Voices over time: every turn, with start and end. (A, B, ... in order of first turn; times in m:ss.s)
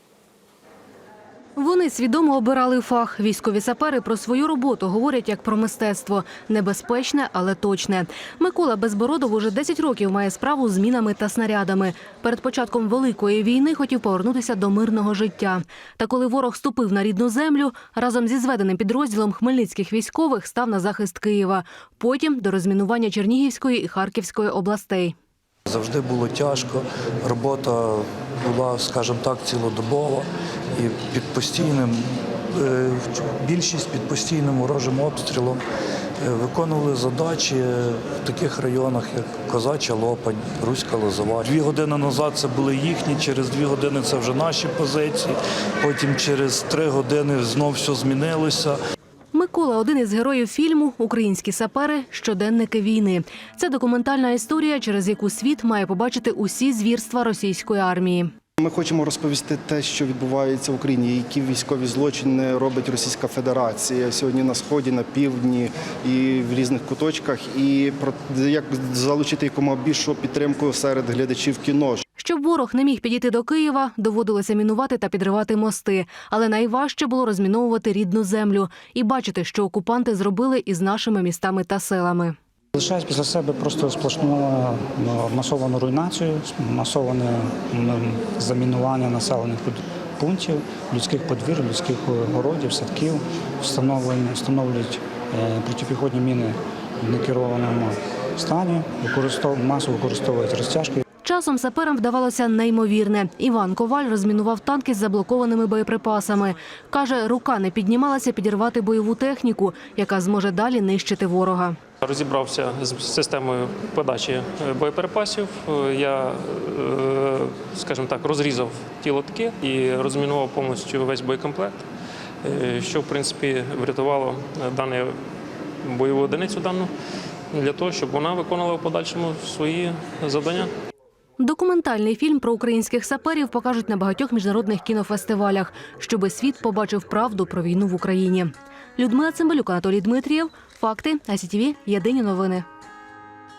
0:01.6-0:25.2 A
0:25.7-0:35.6 B
0:36.2-0:48.8 B
0:49.3-0:58.3 A
0:58.6-1:12.0 C
1:12.2-1:22.4 A
1:22.8-1:41.0 D
1:41.2-1:51.8 A
1:52.0-2:01.8 E
2:02.4-2:05.2 E
2:05.8-2:06.9 E
2:07.5-2:10.7 E
2:11.4-2:22.6 A